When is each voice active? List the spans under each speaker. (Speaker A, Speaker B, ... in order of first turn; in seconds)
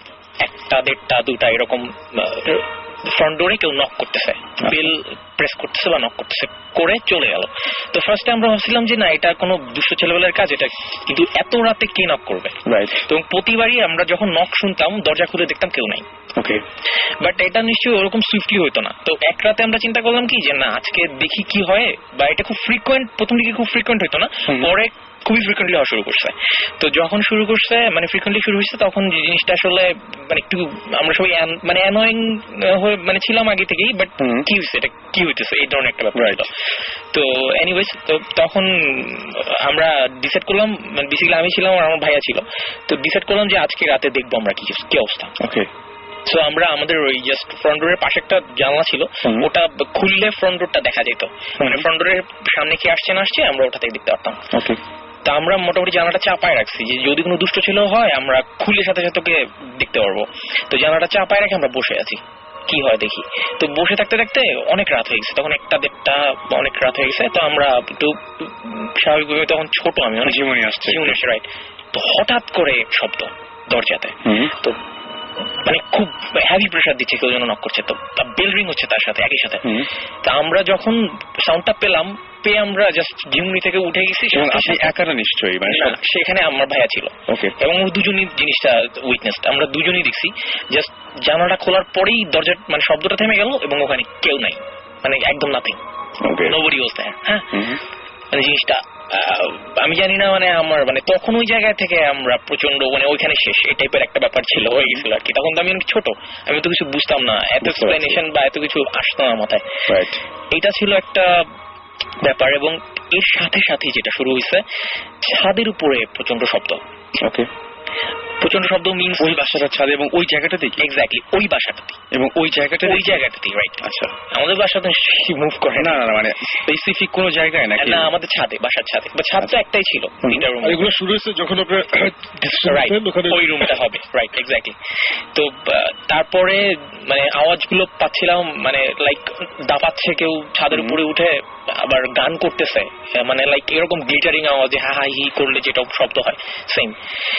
Speaker A: 0.4-16.1, 17.2-36.5, 37.1-45.3, 46.3-54.5, 55.2-74.8, 75.6-79.7, 80.2-84.9, 85.7-95.8, 96.5-97.5, 98.3-109.8, 110.5-111.5, 112.2-114.6, 115.2-116.8, 118.4-119.6, 120.8-122.0, 122.8-126.0, 127.8-130.8, 132.7-134.8, 135.3-146.9
Speaker B: 4.6-4.9, 12.7-13.1, 16.4-16.6, 34.2-34.5, 36.1-36.5, 45.4-45.7, 51.6-51.9, 54.5-54.8, 70.2-71.2, 74.2-74.5, 84.3-86.0, 87.3-87.5, 96.2-96.6, 97.5-97.8, 107.6-108.2, 109.9-110.2, 117.2-117.5, 119.2-120.8, 122.1-123.2, 123.8-124.1, 125.8-128.1, 130.2-130.5, 140.7-141.0
Speaker C: 130.6-133.8